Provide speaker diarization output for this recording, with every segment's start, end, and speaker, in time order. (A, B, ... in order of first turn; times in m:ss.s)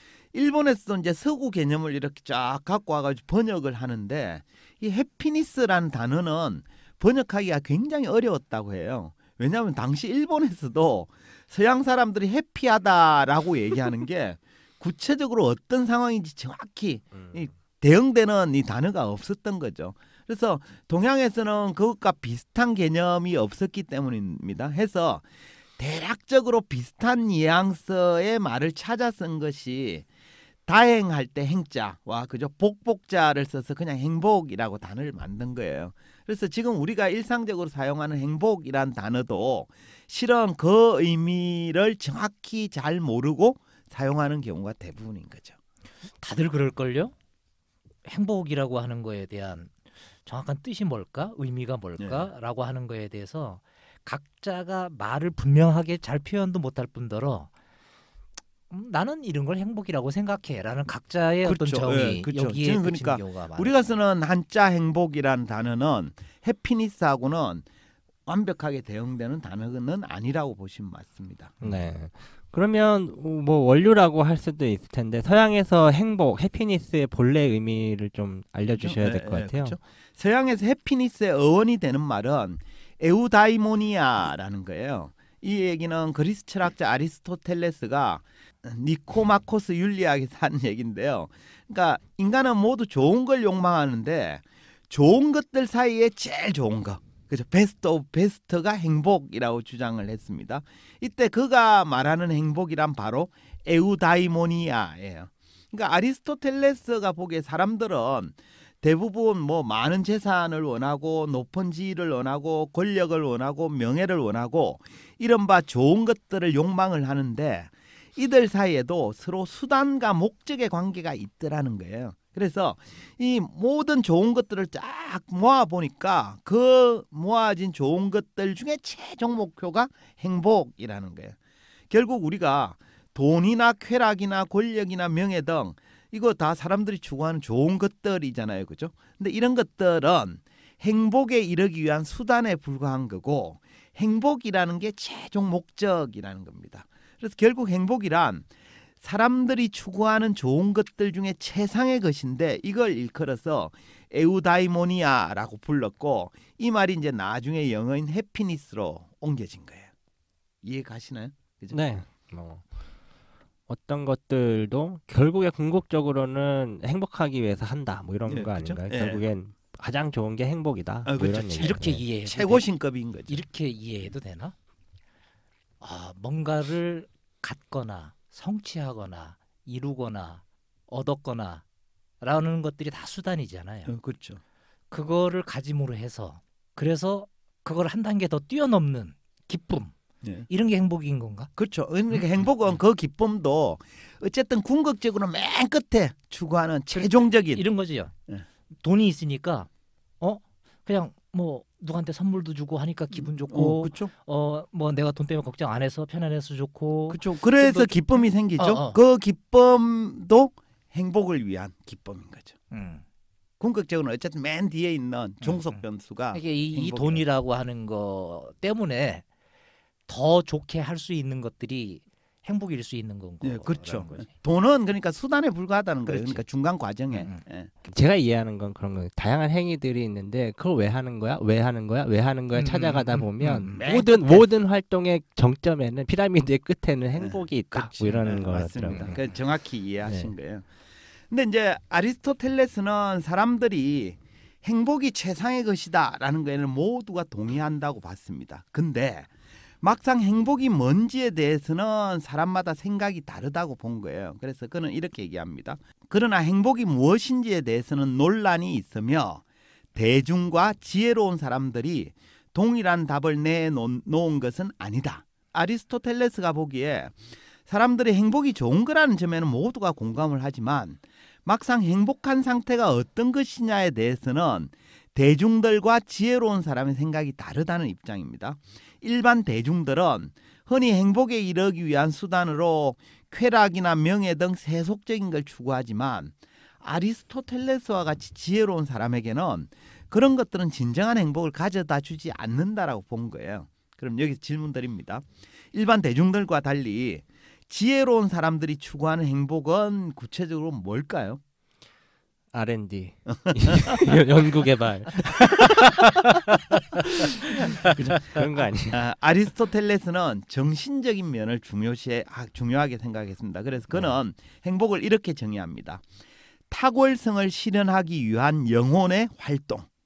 0:00.3-0:30.0 A
0:30.6-0:45.6 A
0:46.2-0:47.1 B
0:48.0-0:49.7 B
0:50.2-0:57.5 B
0:52.0-0:52.3 A
0:58.7-1:03.9 B
1:01.4-1:07.6 A
1:08.2-1:11.6 A
1:11.6-1:19.8 C
1:18.7-2:11.4 A
2:11.9-2:28.5 A
2:29.0-2:39.9 A
2:40.6-2:42.0 A
2:41.7-2:42.6 C
2:43.7-2:52.0 C
2:48.3-2:49.2 A
2:51.0-2:53.4 A
2:51.6-2:52.6 B
2:53.3-2:54.5 B
2:55.8-3:01.6 B
3:02.2-3:03.9 B
3:03.9-3:04.4 A
3:04.9-3:10.0 B
3:10.5-3:11.5 B
3:11.6-3:17.6 A
3:16.9-3:18.1 B
3:18.8-3:19.7 B
3:20.2-3:29.0 B
3:23.1-3:24.1 A
3:27.1-3:32.5 A
3:32.7-3:33.0 B
3:33.6-3:37.2 A
3:35.4-3:39.2 B
3:40.1-3:44.3 B
3:43.4-3:47.7 A
3:46.0-3:46.4 B
3:47.1-3:47.4 B
3:47.9-3:59.2 C
3:52.5-3:53.8 B
3:53.8-3:54.5 A
3:57.2-4:00.7 A
3:58.9-3:59.4 B
4:00.0-4:00.3 B
4:01.3-4:19.4 A
4:19.9-5:01.4 A
5:02.5-5:09.0 C
5:03.4-5:04.0 A
5:07.9-5:08.3 A
5:08.9-5:16.0 A
5:16.7-5:19.9 A